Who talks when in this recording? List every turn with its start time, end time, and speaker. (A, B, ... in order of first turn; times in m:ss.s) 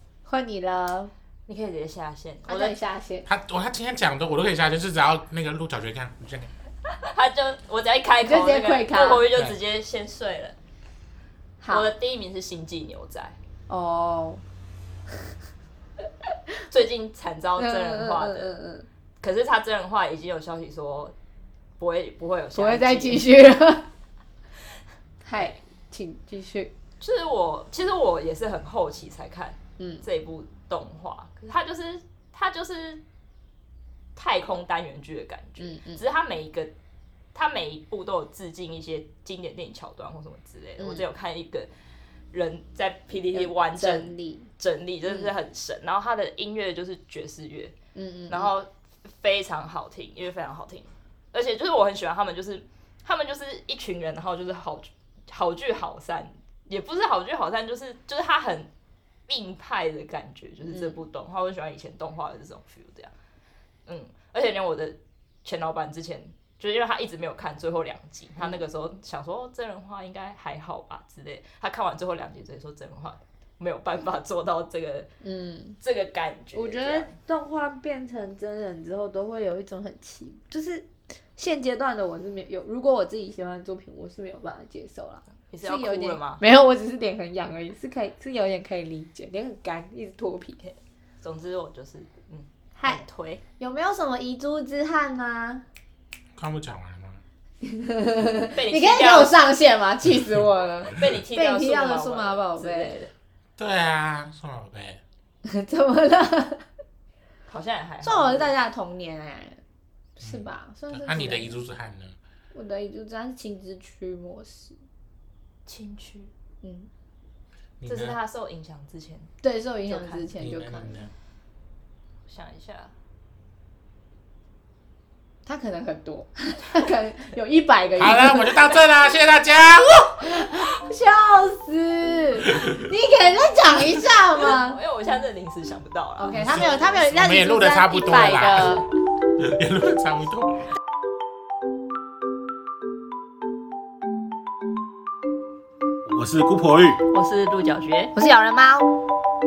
0:00.3-0:01.1 A
0:01.5-0:02.8 B
0:02.5-0:03.3 A
0:03.3-0:06.5 C
0:07.0-0:10.6 B
0:08.2-0:09.3 A
0:11.6-0:11.9 A
0:11.7-0:13.4 B
0:13.7-0:14.4 A
0:16.7-0:18.6 B
0:17.6-0:18.9 A
0:19.2-0:21.1 B
0:21.8-0:23.2 B
0:22.5-0:23.9 A
0:25.2-0:26.7 A
0:27.0-0:33.0 B
0:34.2-0:36.7 B
0:35.6-0:36.0 A
0:37.3-0:41.7 B
0:40.8-0:41.0 A
0:42.3-0:47.7 B
0:43.3-0:44.5 A
0:45.1-0:45.3 A
0:48.0-0:48.5 A
0:48.3-0:58.7 B
0:59.3-1:03.1 B
1:00.7-1:01.0 A
1:03.9-1:15.1 B
1:15.2-1:15.8 A
1:15.8-1:17.2 B
1:16.6-1:30.6 A
1:25.5-1:26.4 B
1:30.6-1:33.4 B
1:32.8-1:33.0 A
1:33.6-1:35.6 A
1:36.4-1:37.2 C
1:37.6-1:43.0 A
1:38.5-1:39.4 B
1:41.0-1:43.1 B
1:43.6-1:45.0 C
1:45.4-1:46.6 A
1:47.5-1:48.5 B
1:48.0-1:49.6 A
1:50.2-1:51.6 A
1:50.2-1:52.2 C
1:52.5-1:54.8 A
1:55.7-1:56.3 B
1:56.6-1:56.9 A
1:57.8-1:58.2 C
1:57.9-1:59.3 B
1:59.4-2:01.0 A
1:59.9-2:00.3 B
2:00.4-2:01.1 C
2:02.3-2:02.9 B
2:05.5-2:08.8 A
2:08.0-2:10.3 C
2:10.2-2:14.8 A
2:14.3-2:16.8 B
2:16.2-2:18.9 A
2:16.3-2:18.8 C
2:19.4-2:20.7 C
2:26.1-2:27.0 C
2:27.1-2:28.1 B
2:28.2-2:28.9 A